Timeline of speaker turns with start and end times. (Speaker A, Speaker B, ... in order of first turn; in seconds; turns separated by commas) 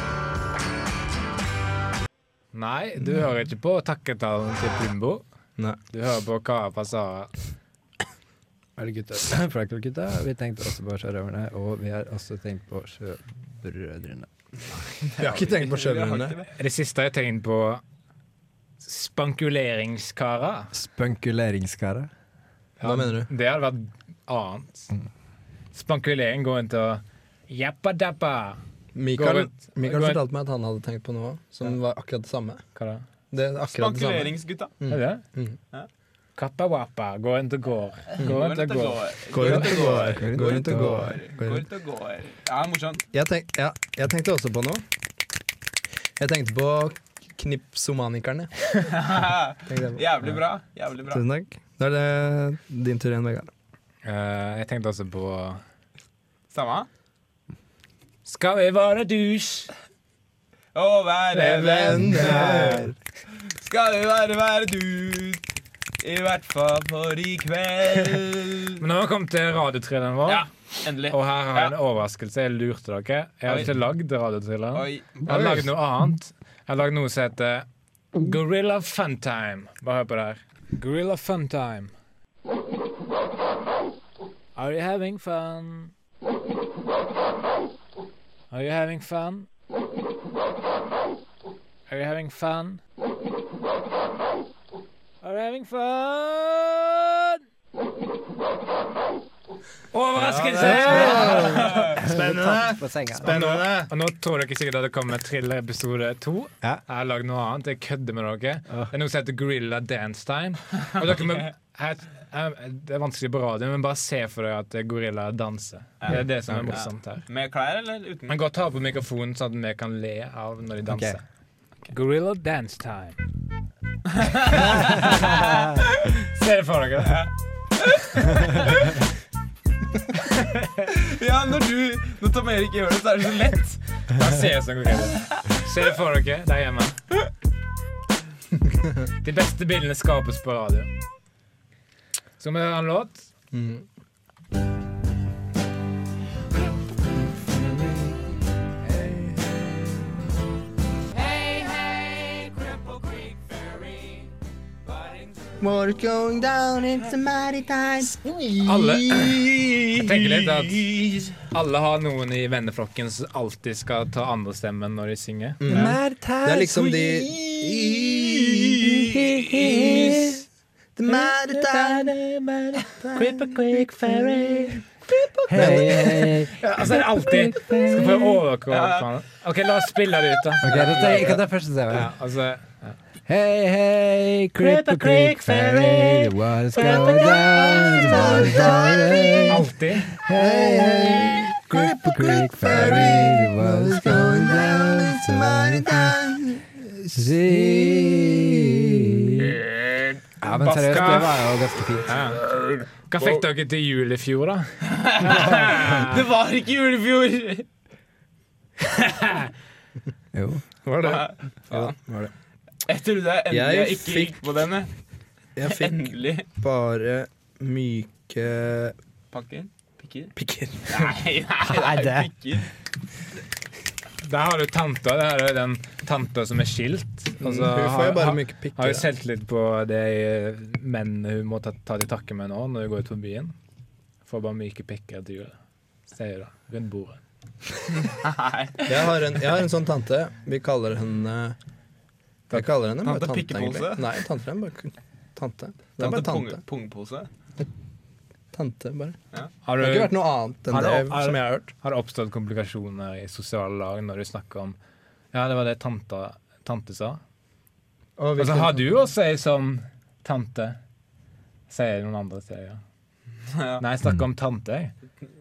Speaker A: 2.5-5.2, Speaker A: 5.9-7.3, Speaker B: 8.8-14.3, Speaker C: 15.0-16.5, Speaker D: 15.2-16.4, Speaker A: 16.5-17.8, Speaker A: 18.8-20.7, Speaker B: 20.7-22.1, Speaker A: 22.8-24.9, Speaker D: 22.8-23.3, Speaker A: 25.7-28.6, Speaker D: 28.9-32.6, Speaker A: 29.1-30.2, Speaker A: 32.7-33.0, Speaker D: 33.3-35.6, Speaker C: 33.7-34.7, Speaker A: 34.9-35.2, Speaker A: 36.4-39.6, Speaker C: 38.1-43.0, Speaker D: 39.3-41.6, Speaker B: 39.9-41.2, Speaker D: 43.1-44.8, Speaker D: 46.2-48.9, Speaker C: 48.9-51.2, Speaker D: 49.7-50.0, Speaker D: 51.1-53.5, Speaker A: 54.0-55.6, Speaker C: 56.5-56.9, Speaker A: 58.2-59.7, Speaker C: 60.7-62.5, Speaker D: 61.3-62.9, Speaker A: 61.9-62.9, Speaker B: 62.2-62.8, Speaker C: 63.6-65.4, Speaker C: 66.0-68.8, Speaker A: 68.8-81.9, Speaker C: 70.3-71.7, Speaker C: 74.7-75.1, Speaker B: 75.2-75.7, Speaker D: 75.3-75.6, Speaker A: 84.5-85.9, Speaker A: 88.5-89.5, Speaker A: 91.9-92.8, Speaker A: 95.2-97.4, Speaker A: 99.9-101.7, Speaker D: 100.2-103.9, Speaker B: 100.6-103.3, Speaker C: 101.3-101.8, Speaker A: 103.2-117.2, Speaker C: 116.0-118.3, Speaker A: 118.3-121.2, Speaker B: 120.9-121.2, Speaker A: 121.9-123.2, Speaker C: 124.2-125.4, Speaker A: 124.5-125.3, Speaker A: 126.1-127.3, Speaker C: 127.1-128.8, Speaker A: 130.2-130.9, Speaker C: 130.9-133.8, Speaker A: 134.2-137.0, Speaker A: 139.2-140.9, Speaker A: 142.4-143.3, Speaker D: 143.5-143.8, Speaker D: 147.5-148.1, Speaker D: 155.6-160.4, Speaker A: 158.6-159.4, Speaker A: 160.0-160.9, Speaker D: 161.1-161.3, Speaker A: 161.5-165.6, Speaker D: 165.6-170.3, Speaker B: 165.7-170.4, Speaker C: 165.7-165.9, Speaker D: 170.9-172.2, Speaker B: 171.1-174.8, Speaker D: 172.9-173.3, Speaker A: 173.2-173.6, Speaker D: 174.2-176.4, Speaker B: 175.5-178.4, Speaker A: 176.6-181.1, Speaker C: 178.7-179.1, Speaker B: 180.6-182.1, Speaker C: 180.6-181.4, Speaker A: 181.9-183.0, Speaker B: 183.2-196.2, Speaker A: 184.6-188.6, Speaker D: 186.8-187.2, Speaker D: 187.7-189.7, Speaker A: 189.5-190.1, Speaker D: 190.3-198.3, Speaker B: 197.1-199.6, Speaker C: 199.6-201.2, Speaker B: 200.4-202.1, Speaker A: 200.6-201.5, Speaker A: 202.1-202.4, Speaker C: 202.4-203.4, Speaker A: 203.1-206.2, Speaker C: 204.9-207.7, Speaker A: 208.9-209.5, Speaker B: 210.3-210.6, Speaker D: 210.8-212.3, Speaker C: 211.0-212.0, Speaker C: 212.9-214.9, Speaker D: 213.5-214.3, Speaker D: 215.6-218.9, Speaker C: 215.7-216.4, Speaker C: 219.3-220.3, Speaker D: 220.3-221.1, Speaker C: 220.9-222.7, Speaker B: 221.7-222.3, Speaker A: 224.2-233.5, Speaker D: 227.4-229.1, Speaker A: 234.2-235.6, Speaker A: 236.1-237.2, Speaker C: 238.0-239.1, Speaker D: 238.9-241.6, Speaker D: 242.5-246.6, Speaker C: 243.0-244.2, Speaker C: 246.0-247.3, Speaker D: 248.5-249.2, Speaker A: 249.6-254.8, Speaker D: 249.8-251.7, Speaker A: 255.3-257.2, Speaker D: 258.2-258.8, Speaker A: 258.4-260.8, Speaker A: 261.7-262.8, Speaker C: 263.5-263.8, Speaker A: 263.8-264.9